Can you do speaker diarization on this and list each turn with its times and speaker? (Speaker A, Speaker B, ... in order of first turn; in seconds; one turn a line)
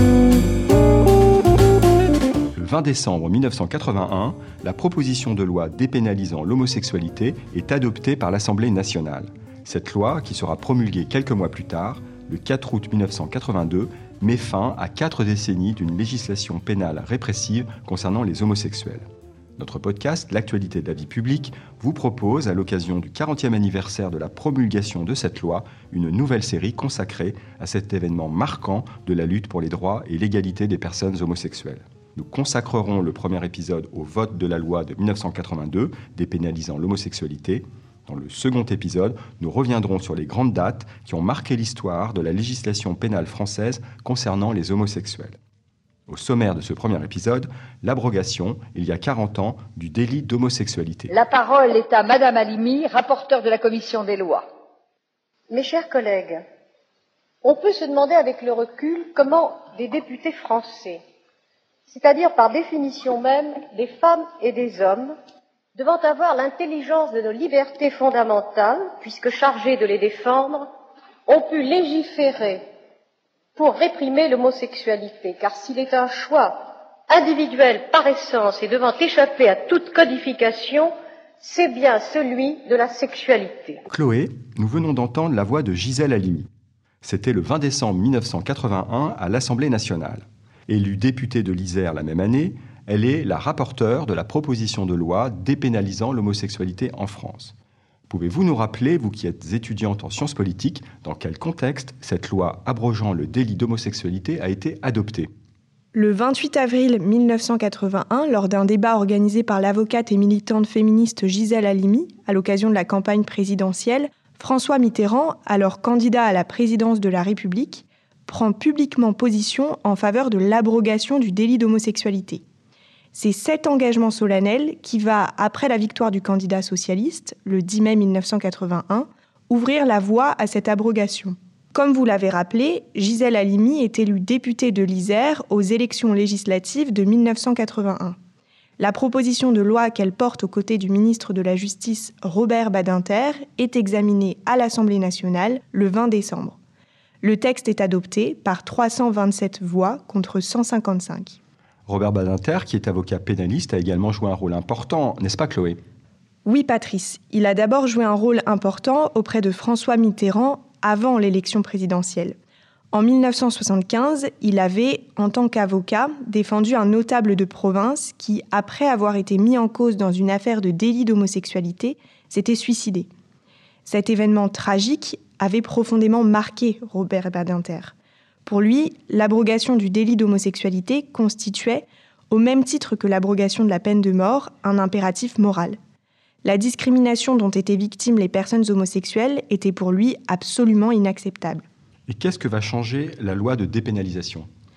Speaker A: 2.5-19.1
Speaker A: 19.6-45.4
Speaker A: 46.1-51.1
Speaker B: 51.1-54.5
Speaker C: 55.5-56.4
Speaker C: 57.4-61.0
Speaker C: 61.9-65.2
Speaker C: 65.8-70.7
Speaker C: 71.3-72.6
Speaker C: 73.6-83.8
Speaker A: 83.9-86.5
Speaker A: 87.0-97.5
Speaker A: 98.1-105.3
Speaker D: 105.9-122.4
Speaker D: 123.1-138.2
Speaker D: 138.8-146.6
Speaker D: 147.2-151.4
Speaker A: 151.9-155.8
Speaker D: 156.4-162.3
Speaker D: 162.9-173.1
Speaker D: 173.8-177.9
Speaker D: 178.4-185.8
Speaker D: 186.4-191.7
Speaker A: 192.1-194.5